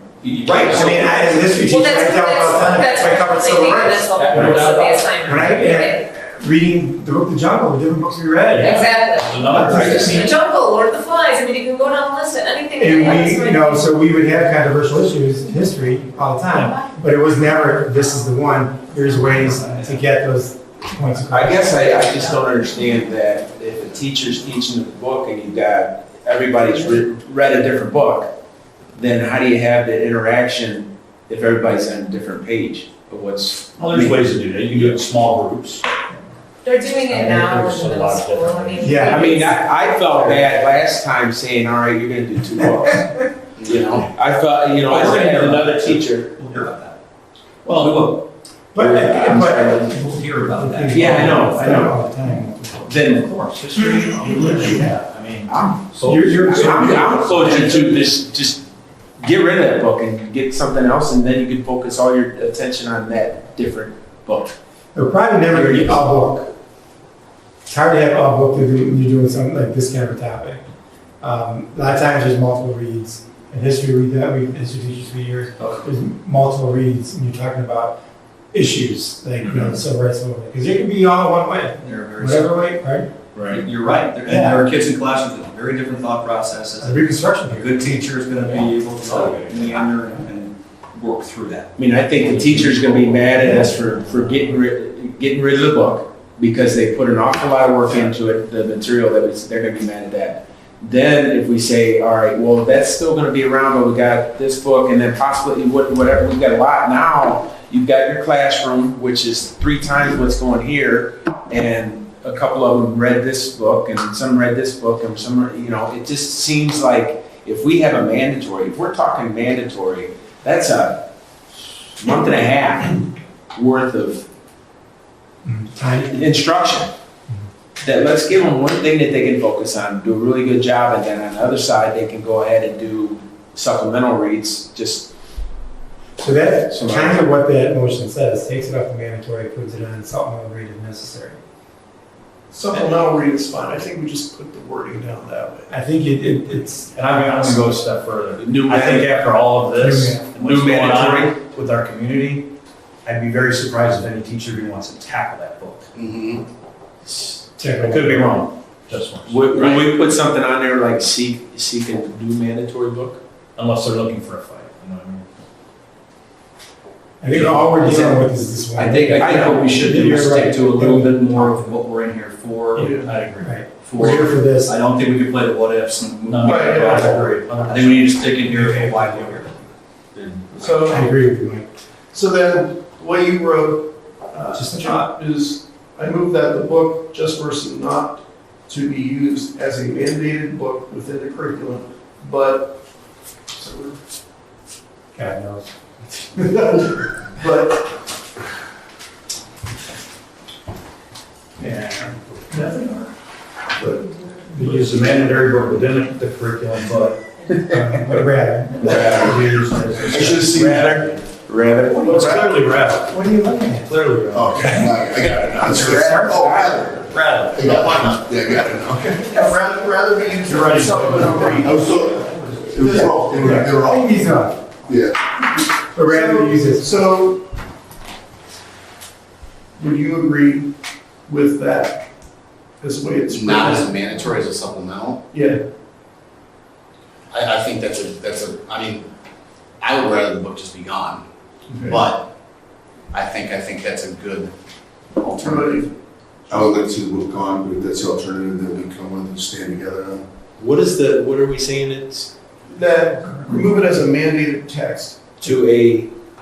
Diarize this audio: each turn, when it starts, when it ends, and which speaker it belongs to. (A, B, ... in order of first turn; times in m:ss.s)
0:00.2-0:01.1 A
0:00.4-0:04.7 B
0:00.5-0:00.9 C
0:01.7-0:05.4 C
0:01.7-0:06.0 D
0:04.2-0:05.2 A
0:04.2-0:05.1 E
0:05.2-0:10.3 B
0:08.5-0:10.3 A
0:08.6-0:13.8 D
0:09.7-0:10.3 E
0:09.8-0:11.4 C
0:11.9-0:13.0 C
0:12.8-0:22.0 B
0:21.3-0:28.3 E
0:28.9-0:35.0 E
0:33.8-0:35.8 A
0:36.7-0:39.6 D
0:37.1-0:39.0 A
0:38.8-0:39.5 B
0:39.1-0:46.4 E
0:43.6-0:44.0 F
0:44.8-0:46.6 A
0:46.6-0:46.9 C
0:47.6-0:48.0 A
0:48.7-0:53.0 B
0:48.8-0:49.8 E
0:49.6-0:51.4 C
0:50.9-0:51.9 E
0:52.9-0:58.0 A
0:52.9-0:53.3 E
0:54.1-0:54.8 B
0:55.5-0:58.6 E
0:56.0-0:57.9 B
0:59.2-1:04.6 E
1:04.9-1:06.5 B
1:05.5-1:06.1 E
1:07.7-1:10.6 B
1:11.2-1:18.0 B
1:18.5-1:23.1 B
1:21.8-1:22.6 C
1:23.3-1:23.6 A
1:23.5-1:27.0 C
1:24.2-1:24.6 B
1:26.8-1:27.8 B
1:27.5-1:31.7 C
1:29.0-1:29.9 A
1:31.8-2:01.1 E
1:32.2-1:33.2 A
2:02.0-2:04.2 E
2:05.4-2:06.3 B
2:06.1-2:06.9 E
2:07.8-2:15.1 E
2:16.2-2:21.4 B
2:16.7-2:17.2 E
2:22.5-2:25.7 G
2:25.7-2:27.7 B
2:26.9-2:32.5 A
2:28.4-2:29.2 E
2:29.8-2:30.2 B
2:30.3-2:31.4 E
2:33.0-2:35.9 A
2:35.9-2:36.4 F
2:37.1-2:39.9 A
2:37.6-2:38.4 B
2:39.2-2:43.2 E
2:43.6-2:45.2 A
2:47.2-2:51.4 B
2:47.3-2:48.0 A
2:47.8-2:48.2 E
2:48.8-2:52.8 C
2:49.2-2:49.7 E
2:52.7-2:54.3 A
2:52.8-2:53.1 G
2:53.4-2:54.7 B
2:53.8-2:59.4 C
2:56.2-2:59.5 A
2:56.4-2:56.8 G
3:00.1-3:00.5 A
3:00.5-3:01.1 G
3:00.8-3:01.7 B
3:02.1-3:12.8 G
3:04.5-3:05.1 B
3:13.5-3:14.0 G
3:15.2-3:16.8 B
3:17.4-3:17.9 G
3:21.6-3:22.1 B
3:22.5-3:23.1 G
3:23.8-3:25.1 G
3:24.6-3:27.2 A
3:27.7-3:30.1 B
3:28.8-3:29.3 E
3:28.8-3:31.3 A
3:30.0-3:32.5 E
3:31.9-3:35.0 A
3:32.0-3:32.4 G
3:33.0-3:33.9 B
3:34.3-3:39.4 H
3:35.6-3:38.0 A
3:35.7-3:36.8 E
3:39.3-3:41.7 G
3:40.4-3:41.8 A
3:41.6-3:44.3 H
3:42.8-3:44.6 B
3:44.8-3:45.2 H
3:45.9-3:46.9 B
3:46.0-3:47.4 G
3:49.8-3:50.7 G
3:51.3-3:52.0 G
3:52.8-3:54.4 G
3:53.3-3:55.2 F
3:55.3-3:55.6 G
3:57.3-3:59.0 F
3:59.8-4:01.2 F
4:01.7-4:02.0 G
4:01.9-4:02.3 F
4:03.1-4:04.5 F
4:05.2-4:05.9 G
4:06.5-4:10.2 H
4:10.6-4:12.3 E
4:12.7-4:15.3 G
4:15.4-4:16.1 E